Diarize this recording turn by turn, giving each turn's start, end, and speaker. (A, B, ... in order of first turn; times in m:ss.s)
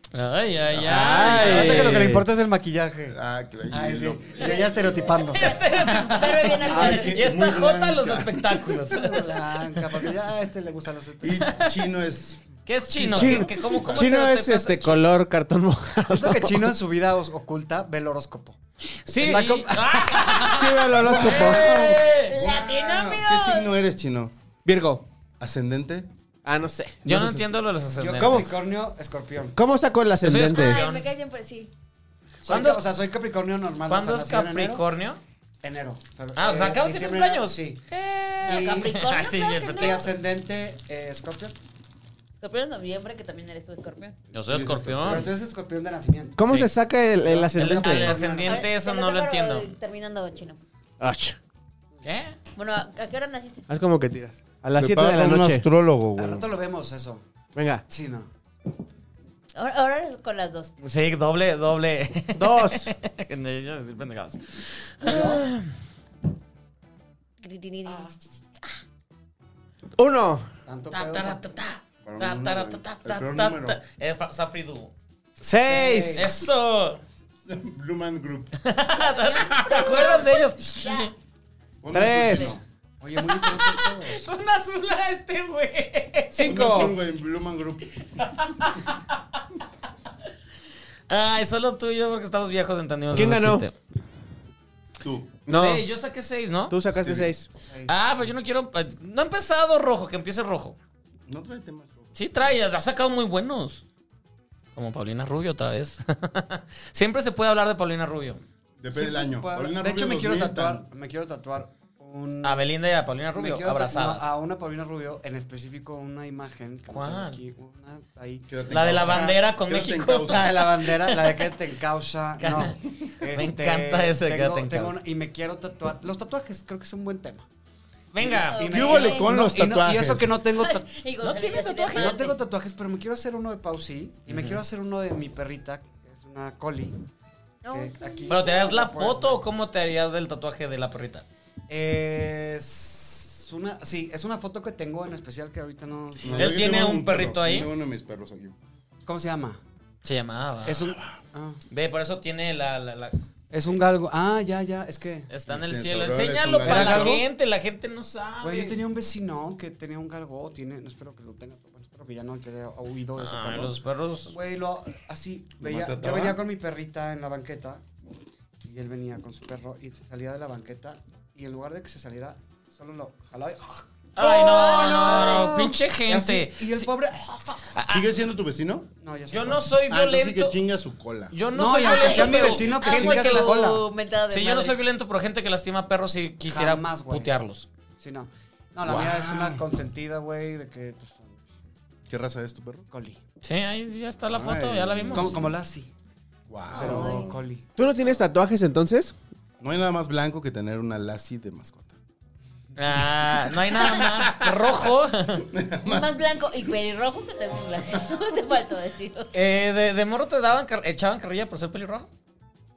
0:00.1-0:02.0 A
0:00.7-0:01.1 B
0:00.8-0:02.2 C
0:01.2-0:03.2 D
0:03.1-0:04.9 B
0:03.7-0:05.5 D
0:04.4-0:07.1 E
0:05.3-0:09.4 A
0:06.6-0:07.2 D
0:06.6-0:08.8 B
0:08.8-0:11.6 D
0:11.2-0:14.1 B
0:12.6-0:15.0 A
0:13.1-0:16.7 C
0:16.1-0:18.6 D
0:19.0-0:22.4 A
0:19.1-0:20.6 D
0:20.5-0:21.7 C
0:21.0-0:24.3 B
0:21.7-0:23.7 E
0:24.6-0:25.0 C
0:25.4-0:26.1 B
0:26.4-0:27.4 C
0:27.0-0:28.5 A
0:28.0-0:29.6 D
0:28.2-0:28.5 C
0:29.6-0:30.8 C
0:30.2-0:31.0 A
0:30.4-0:31.7 E
0:32.4-0:34.8 D
0:32.4-0:32.8 A
0:33.9-0:35.2 A
0:35.6-0:37.8 D
0:36.4-0:40.1 A
0:38.4-0:39.0 D
0:38.4-0:40.1 E
0:39.8-0:41.5 D
0:42.4-0:44.2 E
0:44.3-0:45.3 B
0:44.3-0:45.3 A
0:45.0-0:46.4 D
0:46.4-0:48.2 C
0:47.2-0:48.7 D
0:47.5-0:49.7 A
0:48.4-0:50.6 E
0:51.0-0:51.4 C
0:52.0-0:52.4 A
0:52.5-0:53.6 E
0:53.7-0:55.6 C
0:54.8-0:56.5 B
0:56.2-0:57.2 D
0:57.5-0:57.8 C
0:57.9-0:58.3 D
0:59.5-1:00.7 E
1:00.8-1:05.6 A
1:02.3-1:02.9 C
1:05.0-1:05.5 D
1:07.4-1:08.1 E
1:07.8-1:08.2 D
1:10.0-1:10.5 C
1:10.6-1:11.4 D
1:10.9-1:14.9 A
1:12.0-1:13.8 B
1:15.4-1:16.4 C
1:15.6-1:16.3 D
1:16.2-1:17.0 A
1:17.4-1:18.6 B
1:18.6-1:21.1 A
1:18.9-1:21.1 E
1:21.8-1:22.6 B
1:21.9-1:22.5 C
1:22.5-1:24.2 D
1:23.3-1:26.6 A
1:26.3-1:27.0 C
1:26.4-1:28.2 B
1:28.2-1:29.0 A
1:31.1-1:33.7 A
1:33.1-1:33.6 C
1:35.0-1:35.4 B
1:35.4-1:35.8 C
1:35.5-1:36.7 A
1:36.7-1:37.5 C
1:37.0-1:37.3 B
1:37.6-1:38.3 D
1:37.9-1:40.8 A
1:41.3-1:42.1 B
1:42.1-1:43.8 A
1:44.7-1:48.4 A
1:48.8-1:50.8 B
1:48.9-1:52.7 D
1:52.4-1:54.3 A
1:53.3-1:59.4 D
1:56.9-1:57.4 A
1:58.5-2:00.5 B
1:58.7-2:01.4 A
2:00.3-2:07.4 D
2:02.4-2:05.0 A
2:08.1-2:08.8 A
2:08.2-2:09.3 E
2:08.3-2:10.9 D
2:08.6-2:10.3 B
2:10.6-2:12.3 E
2:11.2-2:12.3 A
2:11.9-2:17.0 D
2:14.3-2:14.6 A
2:17.6-2:18.7 E
2:17.7-2:19.4 D
2:18.3-2:21.2 A
2:21.7-2:26.6 D
2:26.2-2:28.6 B
2:26.3-2:27.7 A
2:29.0-2:29.6 D
2:30.0-2:30.9 A
2:30.6-2:31.6 D
2:31.7-2:33.2 A
2:33.5-2:35.3 D
2:35.3-2:38.8 A
2:35.5-2:37.2 B
2:36.6-2:37.2 D
2:38.4-2:43.8 D
2:43.2-2:44.3 A
2:44.3-2:47.8 D
2:45.6-2:46.4 B
2:48.6-2:57.7 D
2:54.2-2:56.9 A
2:54.2-2:55.6 E
2:57.7-2:58.1 A
2:57.9-2:58.9 B
2:59.0-2:59.7 D
2:59.3-3:00.6 A
2:59.9-3:01.4 B
3:01.3-3:03.7 A
3:01.5-3:03.8 D
3:01.8-3:04.8 E
3:04.3-3:07.7 A
3:06.4-3:07.3 D
3:08.0-3:11.4 D
3:08.8-3:09.6 B
3:12.1-3:12.9 B
3:12.9-3:13.2 D
3:13.4-3:15.4 A
3:14.3-3:15.5 B
3:15.1-3:15.9 D
3:16.5-3:17.3 B
3:16.7-3:17.4 E
3:16.7-3:17.6 D
3:17.8-3:19.1 C
3:19.6-3:22.0 B
3:22.8-3:25.4 A
3:23.7-3:24.7 B
3:25.5-3:26.2 B
3:25.8-3:29.3 E
3:29.3-3:32.1 A